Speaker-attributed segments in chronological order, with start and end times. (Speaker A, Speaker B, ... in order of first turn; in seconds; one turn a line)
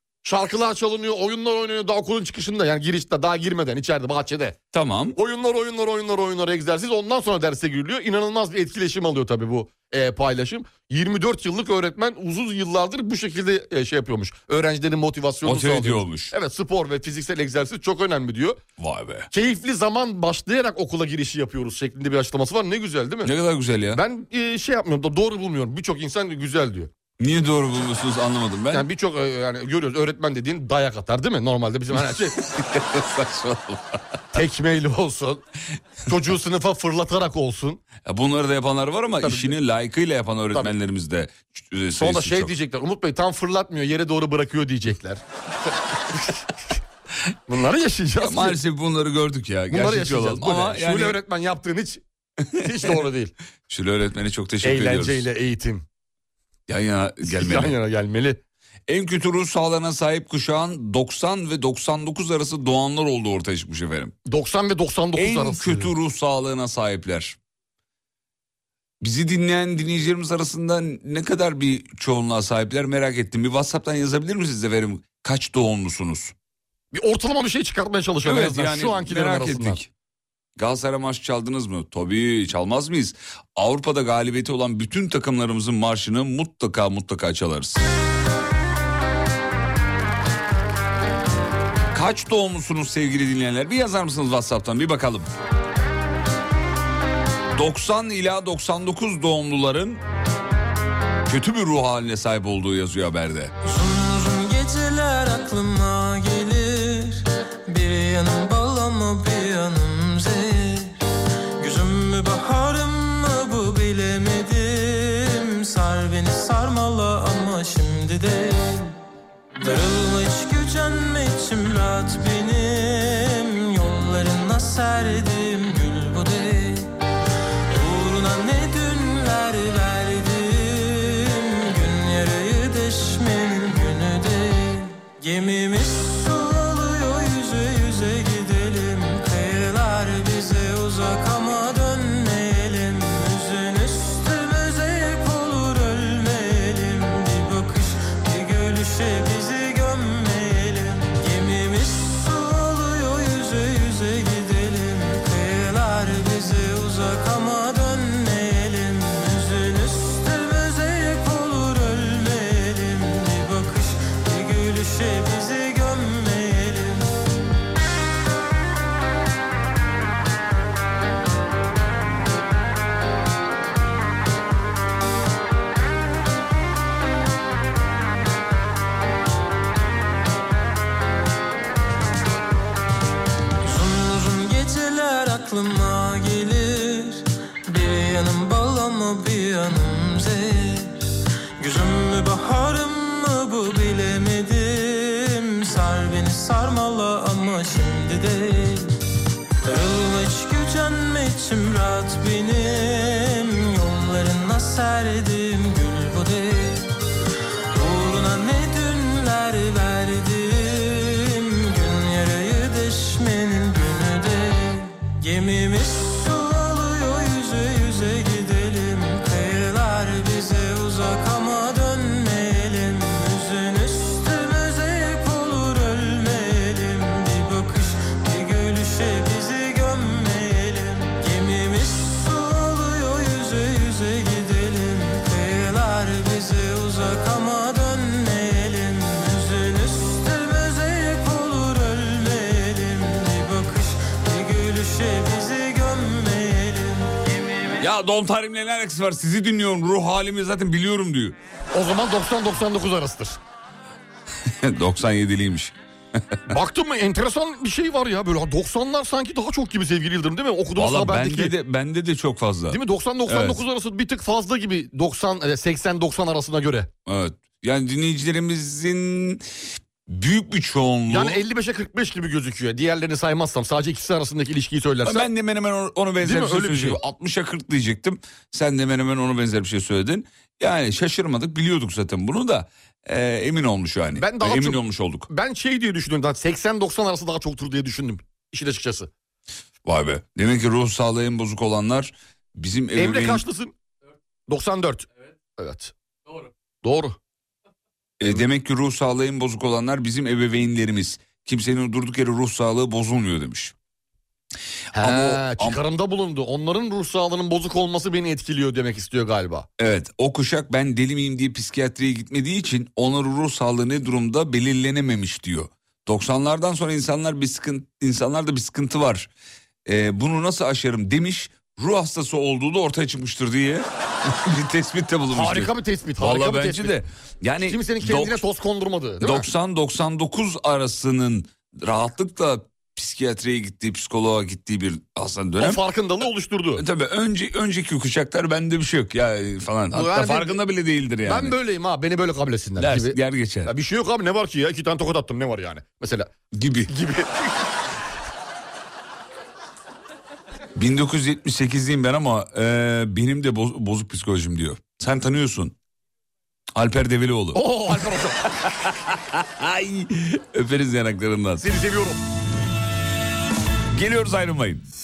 Speaker A: 0.2-4.6
Speaker B: 4.7-5.2
Speaker A: 5.2-18.6
Speaker B: 15.4-16.3
Speaker B: 18.8-19.3
Speaker A: 19.3-23.3
Speaker B: 23.2-24.0
Speaker A: 23.9-26.9
Speaker B: 27.2-28.9
Speaker A: 28.7-32.4
Speaker B: 31.9-34.2
Speaker A: 34.3-35.4
Speaker A: 36.1-37.8
Speaker B: 38.0-42.5
Speaker A: 39.2-39.5
Speaker A: 42.0-45.2
Speaker A: 46.1-46.4
Speaker A: 47.5-48.6
Speaker B: 48.2-51.2
Speaker A: 49.7-52.0
Speaker B: 52.5-53.0
Speaker A: 52.6-53.3
Speaker B: 53.7-55.3
Speaker A: 54.6-55.8
Speaker B: 56.7-57.8
Speaker A: 57.2-58.4
Speaker B: 58.9-64.1
Speaker A: 64.2-65.9
Speaker B: 65.2-67.4
Speaker B: 69.0-76.3
Speaker A: 76.9-79.8
Speaker B: 78.2-79.9
Speaker B: 80.6-87.8
Speaker B: 91.9-95.3
Speaker B: 97.5-100.0
Speaker B: 101.3-103.5
Speaker C: 103.6-111.0
Speaker C: 111.6-119.0
Speaker C: 119.6-126.9
Speaker C: 127.7-167.1
Speaker C: 183.6-191.0
Speaker C: 191.6-198.9
Speaker C: 199.6-206.9
Speaker C: 207.7-247.7
Speaker B: 247.8-251.4
Speaker A: 251.7-253.4
Speaker B: 254.4-256.6
Speaker A: 256.5-261.5
Speaker B: 260.8-263.6
Speaker A: 262.7-266.9
Speaker B: 267.1-271.4
Speaker A: 271.1-275.3
Speaker B: 275.0-285.3
Speaker A: 276.2-277.0
Speaker A: 284.2-289.1
Speaker B: 289.8-293.4
Speaker A: 292.9-293.7
Speaker A: 294.5-295.1
Speaker A: 295.6-295.9
Speaker A: 296.8-297.2
Speaker B: 298.2-303.7
Speaker B: 304.9-305.8
Speaker A: 304.9-309.7
Speaker B: 309.8-319.3
Speaker B: 319.9-328.4
Speaker A: 325.3-327.0
Speaker A: 327.6-329.5
Speaker B: 329.2-335.8
Speaker A: 335.6-336.8
Speaker B: 336.8-341.6
Speaker A: 339.9-340.6
Speaker A: 341.2-346.3
Speaker B: 342.8-343.7
Speaker B: 346.5-346.9
Speaker A: 346.9-347.6
Speaker B: 350.7-355.7
Speaker B: 356.7-361.7
Speaker A: 357.5-358.5
Speaker A: 361.6-362.2
Speaker B: 363.9-364.8